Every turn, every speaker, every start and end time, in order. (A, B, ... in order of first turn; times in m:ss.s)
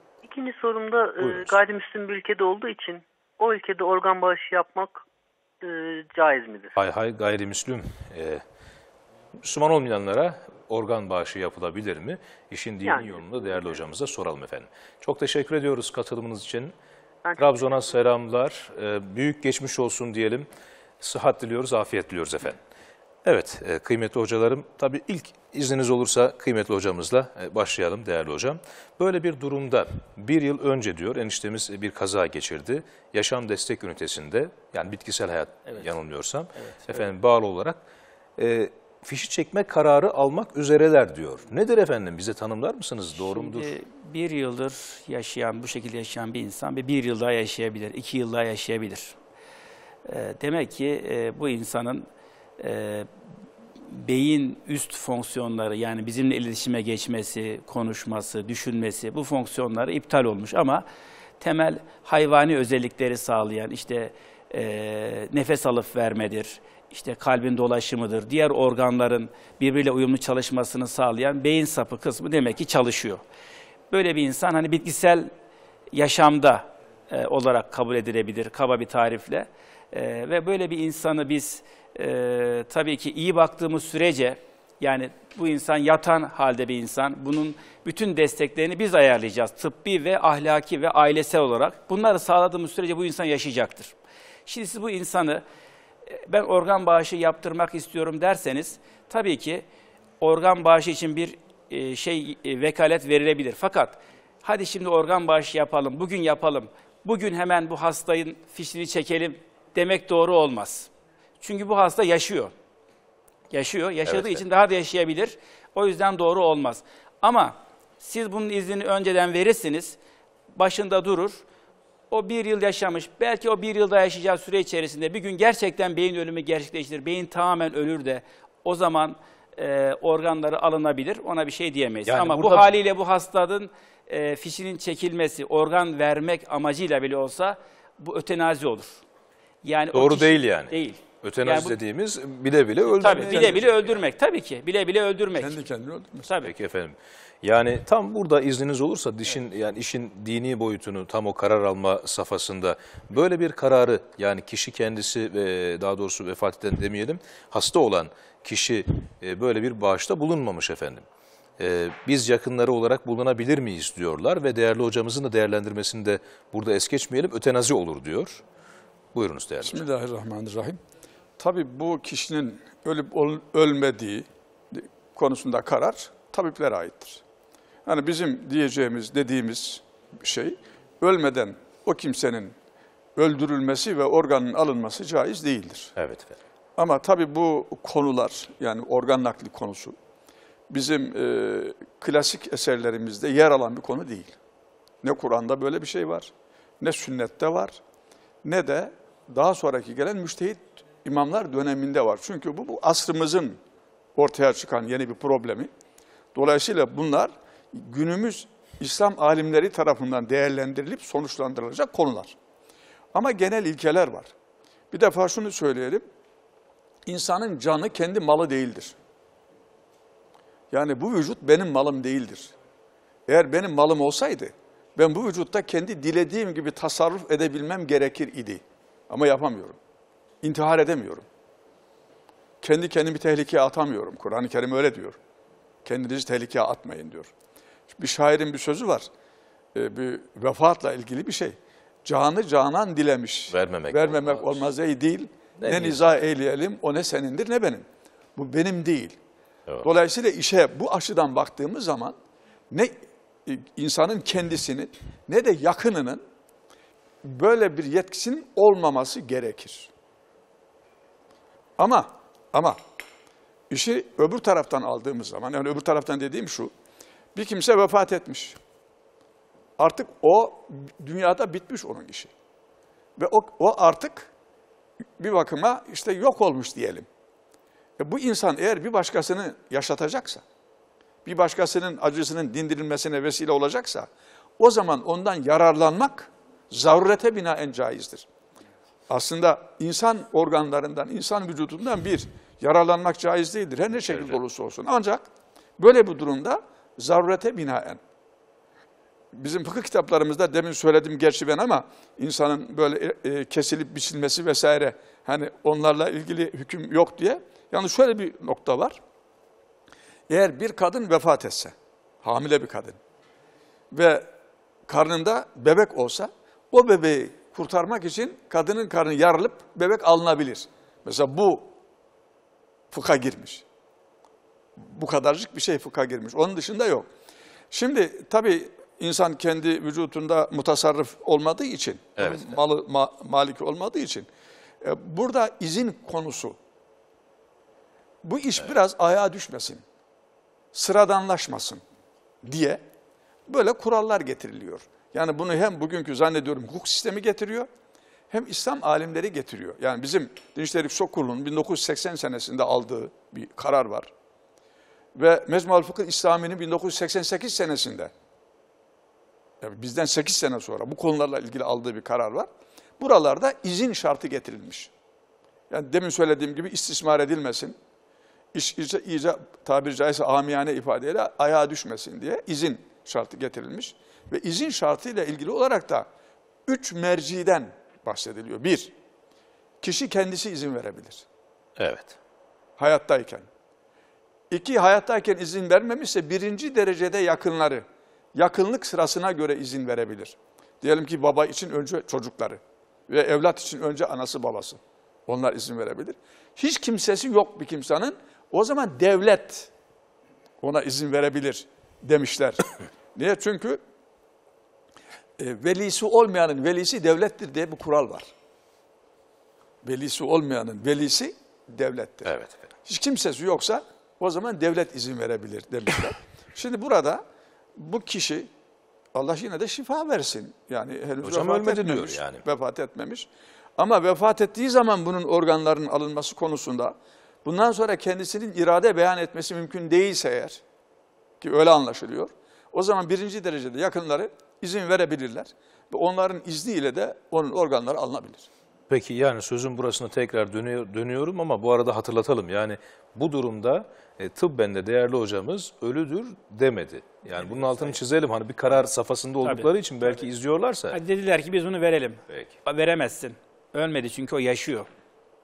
0:00.2-0:05.0 A
0:01.2-0:01.6 B
0:05.6-0:06.7 A
0:06.8-0:08.4 B
0:09.4-0:16.7 B
0:12.8-0:13.1 A
0:17.2-0:17.9 A
0:17.4-0:20.5 B
0:21.0-0:22.6 B
0:23.2-0:37.8 B
0:36.6-0:37.1 C
0:38.4-0:43.7 B
0:43.2-0:49.2 C
0:50.1-0:52.1 C
0:52.6-0:53.1 C
0:53.8-1:00.8 C
1:01.4-1:13.2 C
1:13.9-1:15.3 C
1:15.9-1:33.9 C
1:34.5-1:35.4 C
1:36.1-1:39.6 C
1:40.2-1:52.5 C
1:53.5-2:00.0 C
1:54.1-1:54.4 B
2:00.5-2:01.4 C
2:02.1-2:19.0 C
2:12.1-2:12.7 B
2:19.6-2:21.8 C
2:19.9-2:24.0 B
2:23.0-2:25.6 C
2:23.2-2:23.6 D
2:25.3-2:26.3 D
2:26.3-2:26.5 C
2:26.4-2:41.0 B
2:41.6-2:48.4 B
2:49.1-2:49.9 B
2:49.6-2:50.8 D
2:51.4-2:57.2 D
2:57.9-3:02.6 D
3:03.2-3:05.9 D
3:06.0-3:06.4 B
3:06.8-3:10.0 D
3:10.7-3:14.4 D
3:15.0-3:17.8 D
3:18.4-3:23.6 D
3:24.2-3:25.7 D
3:26.4-3:32.4 D
3:33.1-3:34.3 D
3:34.9-3:36.0 D
3:37.1-3:39.0 D
3:40.7-3:42.5 D
3:43.3-3:49.8 D
3:50.4-3:51.3 D
3:52.6-3:55.2 D
3:55.8-3:57.3 D
3:57.9-3:59.1 D
3:59.7-4:09.2 D
4:03.5-4:04.7 B
4:05.6-4:06.0 B
4:09.8-4:12.2 D
4:13.5-4:16.2 D
4:17.2-4:19.9 D
4:21.8-4:22.8 D
4:23.7-4:26.7 D
4:27.4-4:28.6 D
4:29.8-4:32.3 D
4:33.2-4:34.3 D
4:35.2-4:37.1 D
4:38.0-4:40.4 D
4:41.2-4:48.3 D
4:49.1-4:58.0 D
4:59.3-5:09.0 D
5:10.3-5:13.0 D
5:13.9-5:14.3 D
5:14.9-5:21.7 D
5:22.9-5:23.6 D
5:24.8-5:27.1 D
5:27.7-5:34.3 D
5:32.2-5:32.5 B
5:34.8-5:36.6 D
5:38.2-5:39.8 D
5:40.7-5:41.8 D
5:42.4-5:42.8 D
5:43.5-5:47.7 D
5:48.3-5:54.1 D
5:55.2-5:58.1 D
5:59.6-6:04.9 D
6:05.7-6:07.8 D
6:08.5-6:16.1 D
6:16.7-6:18.9 D
6:19.8-6:21.2 D
6:21.8-6:22.2 B
6:22.8-6:23.5 D
6:24.5-6:39.7 D
6:40.6-6:43.8 D
6:45.4-6:48.3 D
6:49.8-6:52.3 D
6:52.2-6:52.7 B
6:52.8-6:57.2 D
6:57.8-6:58.5 D
6:59.1-7:10.6 D
7:01.2-7:02.4 B
7:11.4-7:18.5 D
7:18.9-7:31.0 B
7:27.4-7:28.0 C
7:29.4-7:30.2 C
7:30.9-7:34.9 C
7:32.3-7:32.6 B